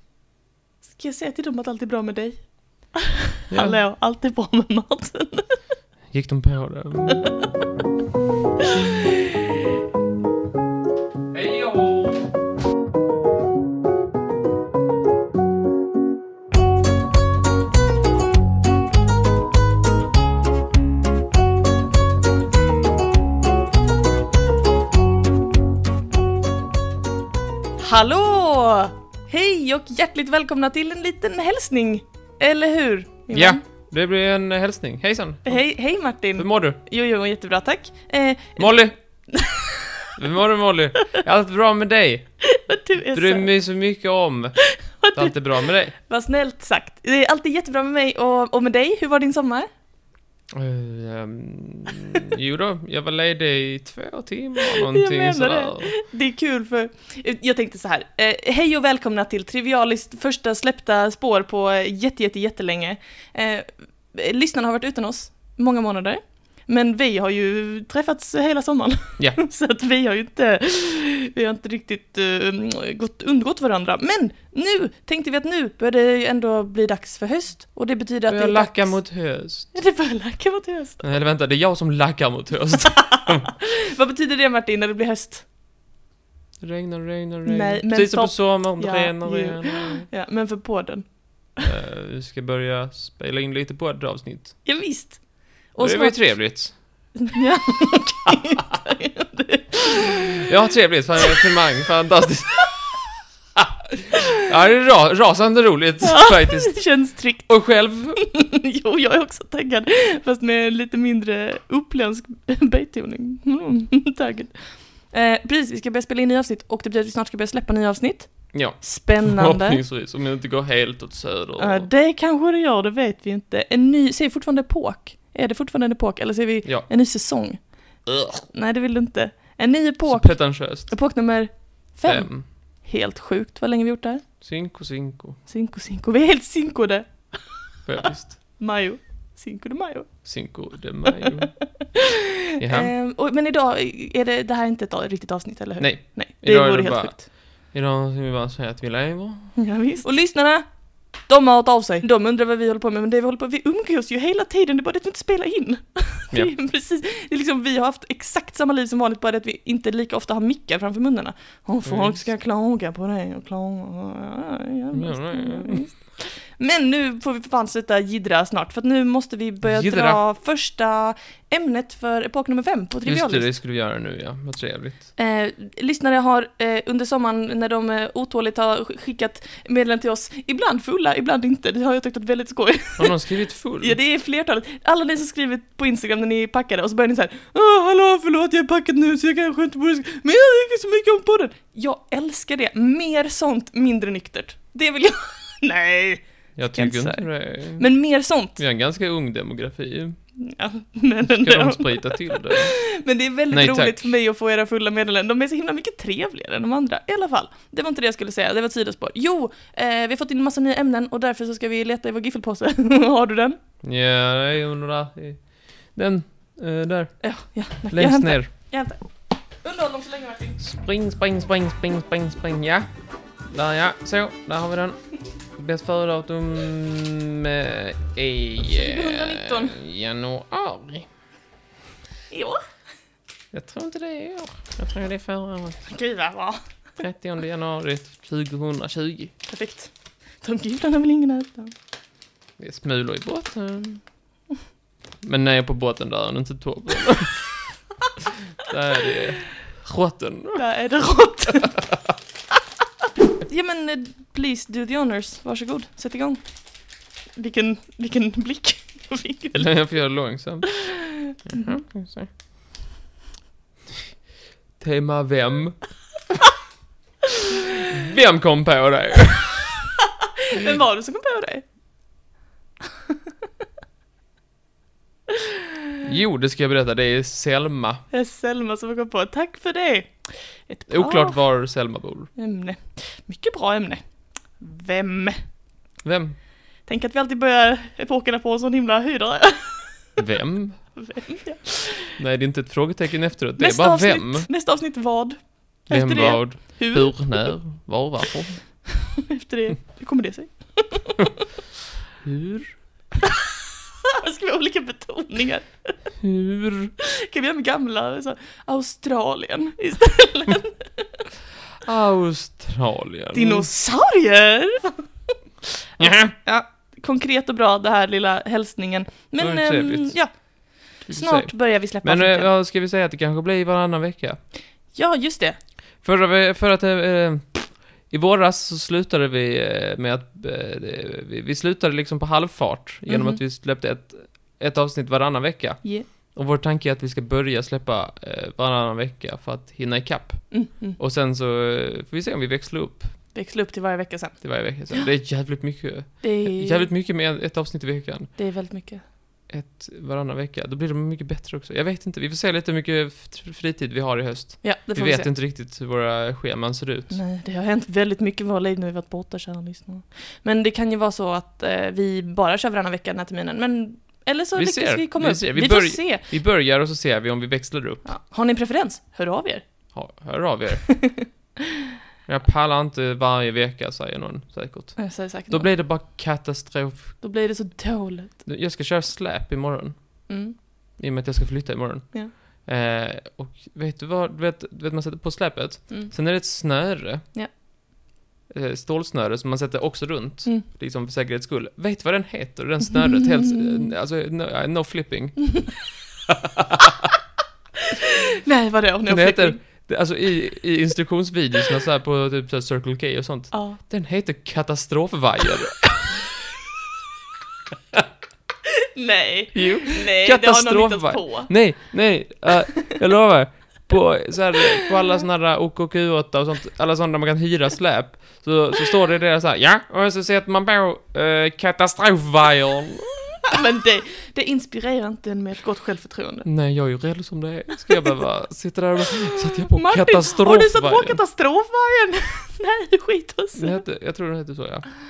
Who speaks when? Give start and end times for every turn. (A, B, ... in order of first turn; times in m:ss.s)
0:00.8-0:05.5 A
0:03.5-0:03.8 B
0:06.1-0:07.3 B
0:07.1-0:07.4 A
0:08.8-0:09.2 A
0:11.3-0:12.2 B
0:27.8-0:33.6 A
0:33.3-0:35.6 B
0:35.4-0:39.9 A
0:36.2-0:36.8 B
0:38.6-0:38.9 B
0:40.2-0:42.3 B
0:42.5-0:43.5 A
0:43.1-0:45.9 B
0:44.7-0:49.7 A
0:50.5-0:55.9 B
0:54.7-1:19.2 A
1:18.3-1:19.8 B
1:19.7-1:21.0 A
1:21.0-1:23.4 B
1:22.9-1:25.4 A
1:26.6-1:30.1 B
1:27.4-1:31.6 A
1:31.6-1:34.7 B
1:34.6-1:40.4 A
1:35.8-1:37.2 B
1:40.4-1:42.8 B
1:43.6-1:48.2 B
1:46.0-1:59.8 A
1:58.5-2:01.9 B
2:01.6-2:14.3 A
2:08.1-2:08.4 B
2:10.0-2:11.1 B
2:12.0-2:12.4 B
2:14.4-2:15.4 B
2:15.4-2:20.3 A
2:17.9-2:18.6 B
2:20.2-2:21.6 B
2:21.0-2:27.2 A
2:22.6-2:22.9 B
2:25.8-2:29.6 B
2:29.6-2:53.5 A
2:41.8-2:42.2 B
2:44.9-2:45.9 B
2:49.6-2:50.2 B
2:53.0-2:55.1 B
2:55.2-3:18.6 A
3:03.0-3:04.0 B
3:16.6-3:17.9 B
3:18.5-3:20.2 B
3:20.4-3:33.6 A
3:21.2-3:22.8 B
3:23.5-3:24.1 B
3:33.8-3:37.3 B
3:37.2-3:39.0 A
3:37.9-3:38.5 B
3:39.6-3:40.6 A
3:40.6-3:42.9 B
3:43.5-3:45.0 B
3:45.5-3:51.1 B
3:48.6-3:49.8 A
3:52.3-3:52.6 A
3:53.5-3:55.8 B
3:55.8-3:56.6 A
3:57.0-3:59.3 B
3:59.5-4:01.7 A
4:02.6-4:04.0 B
4:05.2-4:07.5 B
4:08.6-4:10.6 B
4:10.5-4:11.8 A
4:13.4-4:16.4 A
4:17.4-4:20.7 A
4:19.6-4:22.3 B
4:24.8-4:25.8 B
4:27.9-4:29.7 B
4:30.4-4:31.6 A
4:36.0-4:38.0 B
4:38.1-4:41.4 A
4:40.9-4:42.3 B
4:42.4-4:45.4 A
4:46.0-4:46.4 B
4:46.8-4:50.1 A
4:50.2-4:51.1 B
4:51.0-4:52.2 A
4:52.1-4:54.5 B
4:53.6-4:57.5 A
4:55.9-4:58.7 B
4:58.9-5:01.3 A
5:02.2-5:02.8 B
5:03.2-5:03.5 A
5:04.2-5:06.1 A
5:06.2-5:06.9 B
5:07.0-5:11.2 A
5:11.8-5:13.7 B
5:13.3-5:15.0 A
5:16.0-5:22.5 A
5:16.0-5:16.3 B
5:19.4-5:20.3 B
5:21.0-5:24.4 B
5:24.9-5:25.6 A
5:26.0-5:43.3 B
5:33.1-5:33.4 A
5:35.8-5:36.1 A
5:40.5-5:41.0 A
5:43.3-5:45.1 A
5:44.4-5:48.4 B
5:46.2-5:46.9 A
5:48.4-5:49.0 A
5:49.5-5:57.2 B
5:54.6-5:55.3 A
5:57.1-6:06.3 A
6:04.6-6:08.1 B
6:08.0-6:09.6 A
6:09.9-6:11.3 B
6:10.9-6:11.2 A
6:12.3-6:17.3 B
6:15.0-6:15.7 A
6:17.2-6:18.4 A
6:18.4-6:27.2 B
6:20.3-6:20.6 A
6:28.5-6:35.7 B
6:33.0-6:33.9 A
6:36.3-6:36.8 B
6:37.9-6:39.6 A
6:39.0-6:46.1 B
6:43.5-6:43.8 A
6:49.0-6:51.8 A
6:49.5-7:03.4 B
7:03.5-7:06.5 A
7:06.4-7:11.2 B
7:09.7-7:13.8 A
7:13.6-7:14.8 B